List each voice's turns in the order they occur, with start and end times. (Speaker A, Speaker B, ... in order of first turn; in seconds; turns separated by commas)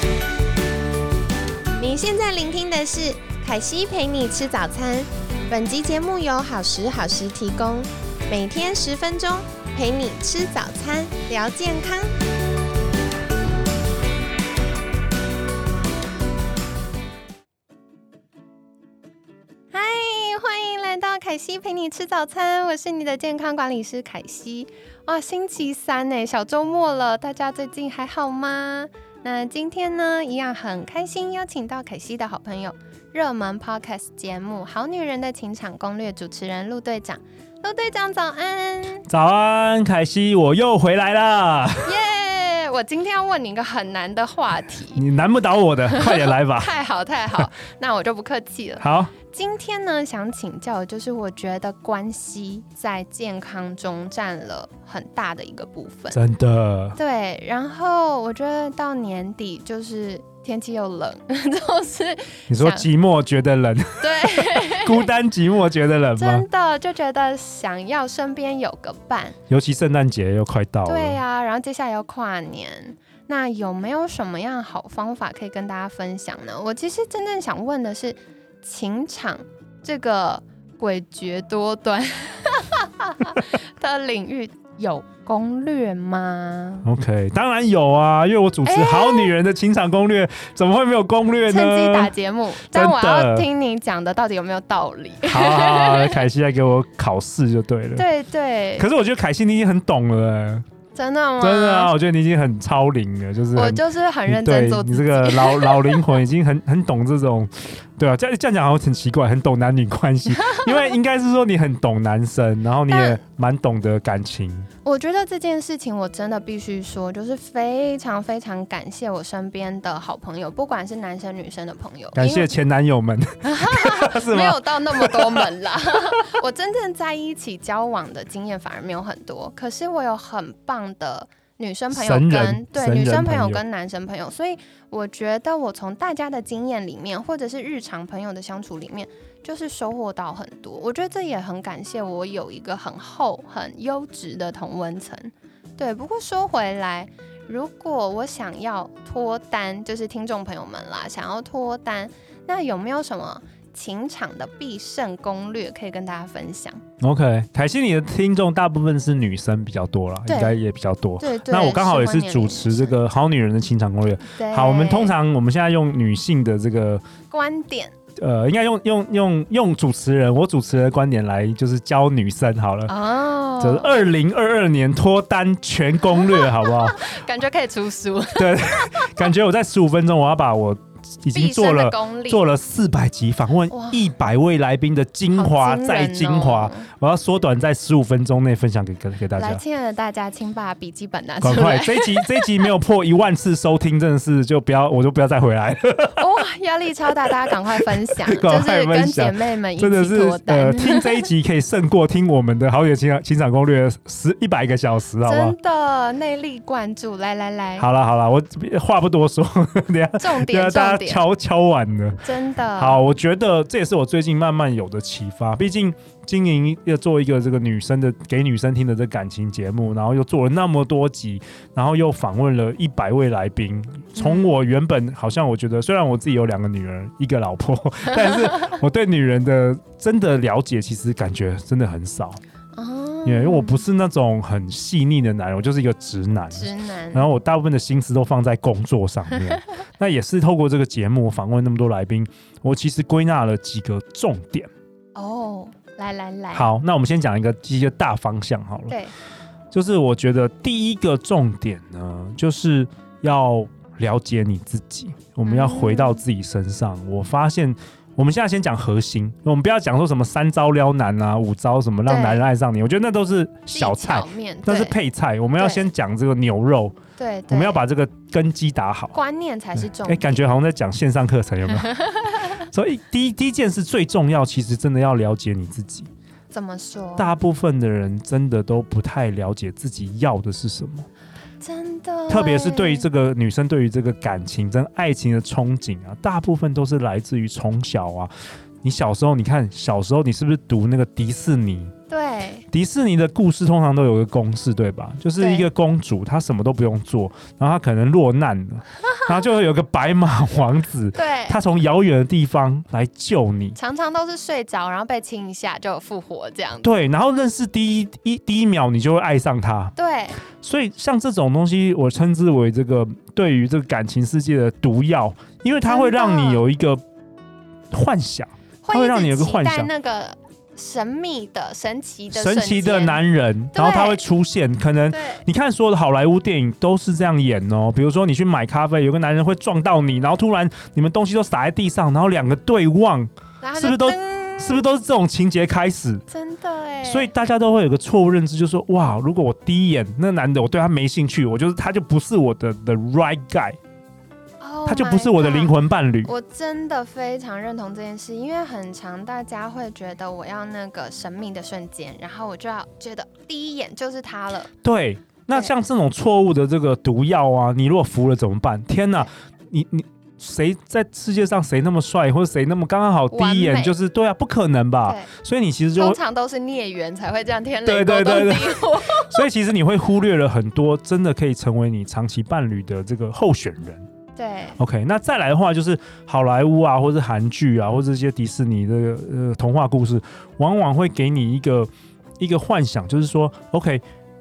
Speaker A: 1.8-12.1, Speaker A: 19.7-39.0, Speaker B: 39.1-42.0, Speaker A: 41.8-45.0, Speaker B: 44.9-46.7, Speaker A: 45.7-56.2, Speaker B: 48.8-49.1, Speaker B: 56.1-57.0, Speaker A: 57.0-62.9, Speaker B: 62.5-66.5, Speaker A: 64.0-65.1, Speaker A: 66.2-69.4, Speaker B: 69.5-71.2, Speaker A: 70.8-86.9, Speaker B: 86.8-93.5, Speaker A: 88.6-89.3, Speaker A: 91.5-96.2, Speaker B: 95.2-98.1, Speaker A: 98.0-98.9, Speaker B: 98.8-100.6, Speaker A: 100.9-101.9, Speaker B: 101.4-114.7, Speaker A: 103.5-106.2, Speaker A: 110.6-110.9, Speaker A: 112.9-113.2, Speaker A: 114.8-122.5, Speaker B: 122.1-125.5, Speaker A: 123.4-156.8, Speaker B: 131.9-133.6, Speaker B: 157.0-167.0, Speaker A: 160.2-160.6, Speaker A: 161.2-163.0, Speaker A: 164.3-165.1, Speaker A: 167.3-167.9, Speaker B: 168.2-172.9, Speaker A: 172.9-174.0, Speaker B: 173.6-177.1, Speaker A: 176.1-179.2, Speaker B: 178.3-189.6, Speaker A: 181.3-182.5, Speaker A: 183.7-184.1, Speaker A: 185.3-186.9, Speaker A: 189.4-192.7, Speaker B: 191.4-196.2, Speaker A: 196.2-201.3, Speaker B: 197.2-205.5, Speaker A: 205.2-207.9, Speaker B: 207.8-212.2, Speaker A: 210.2-211.2, Speaker A: 212.2-213.0, Speaker B: 212.8-232.4, Speaker A: 224.1-224.5, Speaker A: 232.7-233.8, Speaker B: 233.2-244.7, Speaker A: 236.5-237.2, Speaker A: 245.1-246.7, Speaker B: 246.5-248.9, Speaker A: 248.9-249.1, Speaker B: 249.7-266.9, Speaker A: 255.4-256.2, Speaker A: 262.1-262.4, Speaker A: 263.7-264.9, Speaker A: 265.6-265.9, Speaker A: 267.2-267.8, Speaker B: 267.5-269.1, Speaker A: 269.1-270.4, Speaker B: 270.0-271.9, Speaker A: 271.7-272.6, Speaker B: 272.7-276.1, Speaker A: 276.5-277.3, Speaker B: 277.2-281.1, Speaker A: 281.6-283.1, Speaker B: 282.3-288.3, Speaker B: 288.8-291.9, Speaker A: 292.1-292.6, Speaker B: 292.7-303.8, Speaker A: 295.4-295.7, Speaker A: 301.1-301.6, Speaker A: 303.8-306.9, Speaker B: 306.8-309.9, Speaker A: 309.9-310.4, Speaker B: 310.5-317.0, Speaker A: 315.8-316.6, Speaker B: 317.9-319.9, Speaker A: 318.8-323.2, Speaker B: 322.3-336.2, Speaker A: 323.7-324.2, Speaker A: 325.1-325.4, Speaker A: 333.6-334.9, Speaker A: 336.3-337.3, Speaker B: 337.0-343.8, Speaker A: 344.6-354.7, Speaker B: 344.9-346.3, Speaker B: 354.8-366.2, Speaker A: 363.3-363.9, Speaker A: 365.1-365.3, Speaker A: 365.9-369.4, Speaker B: 367.8-374.0, Speaker A: 374.4-374.8, Speaker B: 374.8-381.9, Speaker B: 382.4-384.0